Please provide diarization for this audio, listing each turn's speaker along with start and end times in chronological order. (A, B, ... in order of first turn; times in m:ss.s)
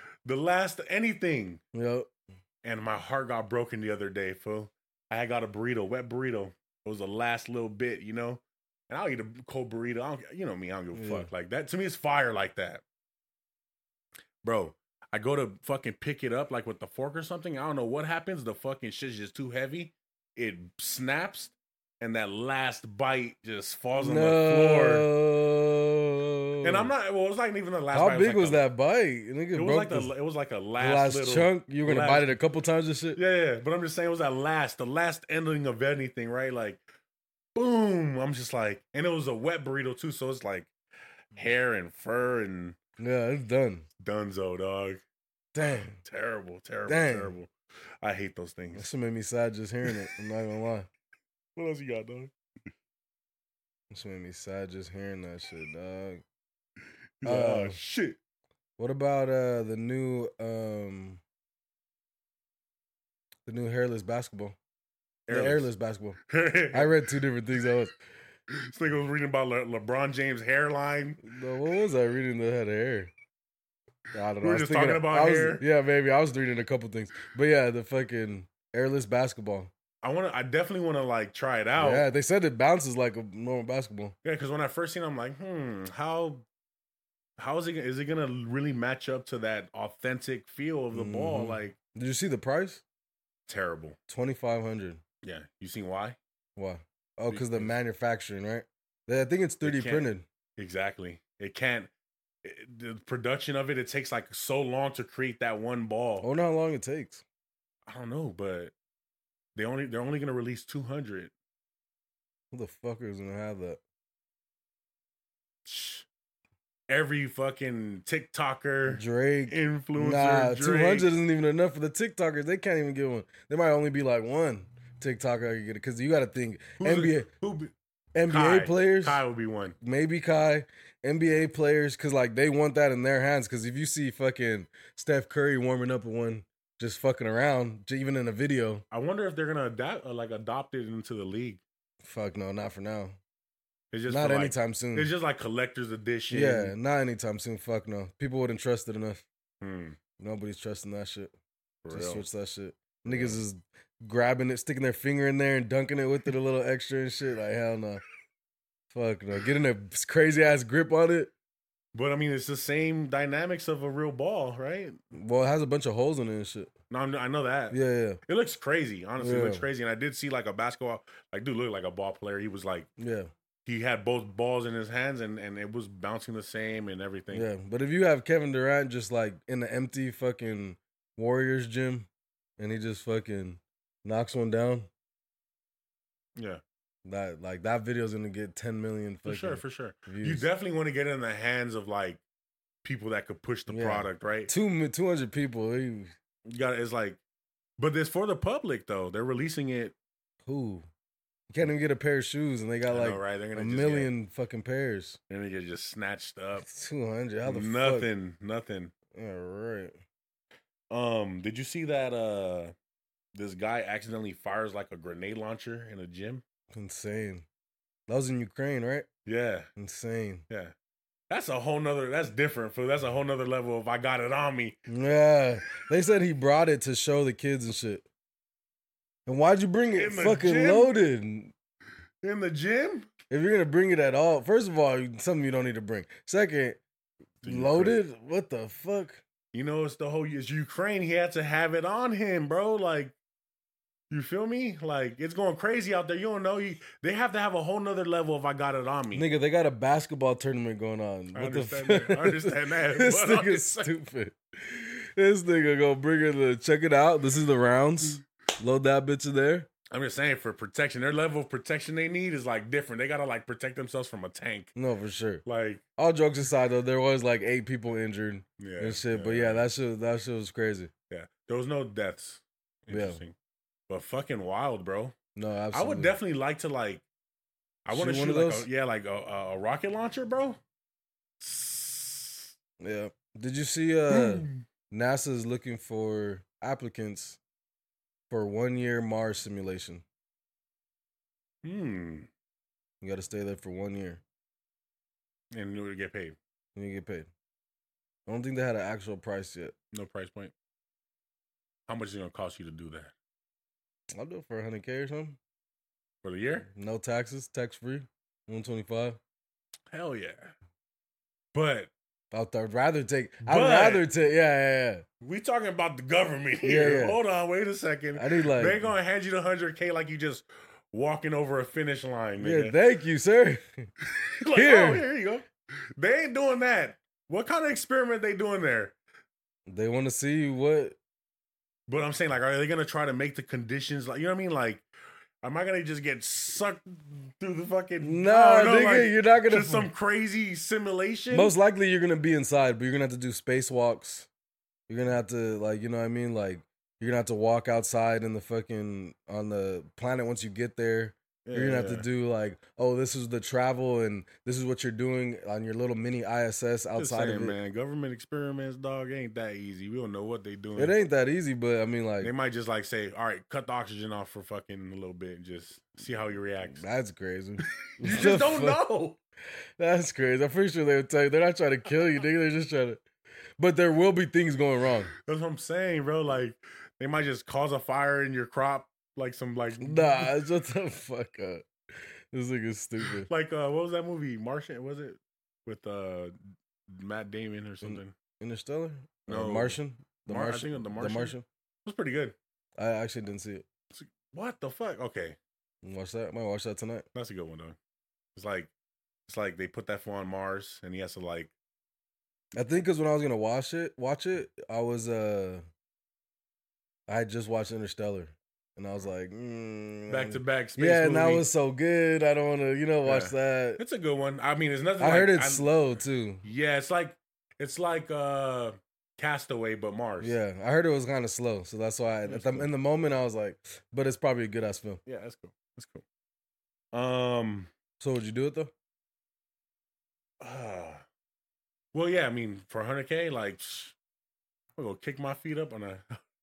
0:00.2-0:01.6 A
0:01.7-0:02.1 B
0:02.6-0:12.8 A
0:10.9-0:11.3 B
0:14.4-0:25.0 A
0:24.0-0:26.9 B
0:26.6-0:28.6 A
0:27.9-0:30.1 B
0:29.5-0:32.3 A
0:30.8-0:33.2 B
0:33.1-0:36.8 A
0:37.5-0:40.7 A
0:41.3-0:42.8 A
0:43.0-0:43.9 B
0:44.0-0:45.0 A
0:45.5-0:46.0 B
0:45.7-0:47.5 A
0:46.9-0:47.3 B
0:48.0-0:48.9 A
0:48.7-0:50.9 B
0:49.8-0:50.1 A
0:51.6-0:52.3 A
0:53.9-0:56.2 B
0:57.2-0:58.2 A
0:57.2-0:57.8 B
0:58.8-1:01.2 B
1:03.4-1:04.6 B
1:05.3-1:05.7 A
1:05.3-1:06.2 B
1:06.3-1:07.0 A
1:06.7-1:07.9 B
1:08.5-1:11.2 A
1:11.2-1:13.1 B
1:14.1-1:19.7 B
1:14.4-1:15.6 A
1:20.0-1:22.1 A
1:21.8-1:24.1 B
1:24.2-1:26.4 A
1:27.4-1:31.8 A
1:30.9-1:32.8 B
1:33.5-1:34.0 A
1:34.1-1:35.0 B
1:35.2-1:36.2 A
1:36.6-1:40.2 B
1:37.3-1:37.8 A
1:39.6-1:41.9 A
1:42.4-1:46.3 A
1:46.2-1:47.2 B
1:47.9-1:48.7 A
1:49.5-1:51.3 A
1:52.5-1:53.8 B
1:55.6-1:56.1 A
1:56.9-2:01.1 A
1:58.9-2:07.3 B
2:06.8-2:07.7 A
2:08.1-2:09.2 B
2:08.3-2:09.8 A
2:09.8-2:18.8 B
2:18.9-2:21.6 A
2:22.0-2:23.2 B
2:23.9-2:26.7 A
2:24.1-2:25.1 B
2:26.3-2:29.2 B
2:29.6-2:30.0 A
2:30.2-2:31.3 B
2:31.8-2:32.2 A
2:31.9-2:38.0 B
2:33.0-2:33.4 A
2:38.9-2:41.3 B
2:41.9-2:45.0 A
2:45.1-2:46.7 B
2:46.9-2:52.9 A
2:47.7-2:48.2 B
2:49.2-2:49.6 B
2:53.0-2:53.3 B
2:53.6-2:57.5 A
2:57.3-3:04.9 B
3:06.4-3:06.6 A
3:07.0-3:10.4 B
3:09.2-3:12.2 A
3:12.8-3:14.5 A
3:13.7-3:16.1 B
3:16.4-3:17.2 A
3:17.8-3:19.9 A
3:20.4-3:20.8 B
3:21.5-3:25.2 B
3:22.9-3:24.1 A
3:25.3-3:26.7 A
3:26.6-3:28.1 B
3:27.4-3:28.9 A
3:29.1-3:30.0 B
3:30.9-3:32.7 A
3:33.3-3:36.4 A
3:36.7-3:37.4 B
3:38.1-3:39.1 B
3:39.2-3:39.7 A
3:39.8-3:40.4 B
3:40.5-3:40.7 A
3:41.3-3:44.8 A
3:44.9-3:48.0 B
3:49.2-3:51.5 B
3:49.9-3:51.0 A
3:52.2-3:53.1 A
3:53.3-3:56.8 B
3:57.4-3:58.0 A
3:57.4-3:59.2 B
3:59.5-4:03.2 A
4:04.1-4:09.3 A
4:09.1-4:19.7 B
4:11.3-4:13.9 A
4:19.9-4:24.7 A
4:24.7-4:25.4 B
4:25.4-4:25.8 A
4:26.0-4:30.9 B
4:28.6-4:29.6 A
4:31.1-4:33.3 A
4:32.9-4:33.2 B
4:33.9-4:35.1 A
4:35.4-4:36.1 B
4:35.7-4:37.0 A
4:37.8-4:40.6 A
4:37.9-4:38.7 B
4:41.4-4:42.5 A
4:42.8-4:47.4 B
4:44.1-4:44.6 A
4:48.3-4:50.0 B
4:51.6-4:52.3 A
4:53.0-4:54.2 B
4:55.5-4:56.4 A
4:56.7-4:57.3 B
4:58.3-4:59.7 B
4:59.9-5:00.5 A
5:01.9-5:03.1 A
5:04.1-5:05.4 B
5:06.2-5:06.7 A
5:06.7-5:09.2 B
5:09.9-5:10.5 A
5:11.5-5:11.9 A
5:12.3-5:15.0 B
5:13.4-5:14.0 A
5:15.2-5:22.8 A
5:16.6-5:17.2 B
5:18.1-5:18.8 B
5:22.4-5:23.8 B
5:24.0-5:28.9 A
5:24.5-5:25.0 B
5:29.7-5:31.0 B
5:31.9-5:34.8 A
5:35.4-5:41.5 A
5:38.0-5:39.9 B
5:41.3-5:44.3 B
5:44.9-5:57.6 B
5:51.4-5:52.1 A
5:57.0-6:01.0 A
6:00.8-6:02.3 B
6:02.2-6:06.8 A
6:06.7-6:08.8 B
6:07.8-6:09.2 A
6:09.8-6:13.0 B
6:13.6-6:15.1 B
6:15.2-6:20.3 A
6:19.8-6:21.7 B
6:22.3-6:23.3 B
6:23.2-6:26.4 A
6:26.9-6:28.1 A
6:27.8-6:31.4 B
6:29.3-6:32.4 A
6:32.8-6:33.6 B
6:33.9-6:35.4 A
6:35.8-6:37.0 B
6:37.1-6:37.8 A
6:38.3-6:38.7 A
6:39.3-6:41.5 A
6:42.6-6:45.6 B
6:47.1-6:53.8 B
6:50.1-6:51.4 A
6:53.0-7:00.3 A
6:55.0-6:56.4 B
7:00.2-7:05.0 B
7:02.2-7:02.7 A
7:05.0-7:06.0 A
7:06.9-7:07.7 A
7:08.0-7:08.7 B
7:10.4-7:11.0 A
7:11.9-7:14.0 A
7:14.8-7:16.2 A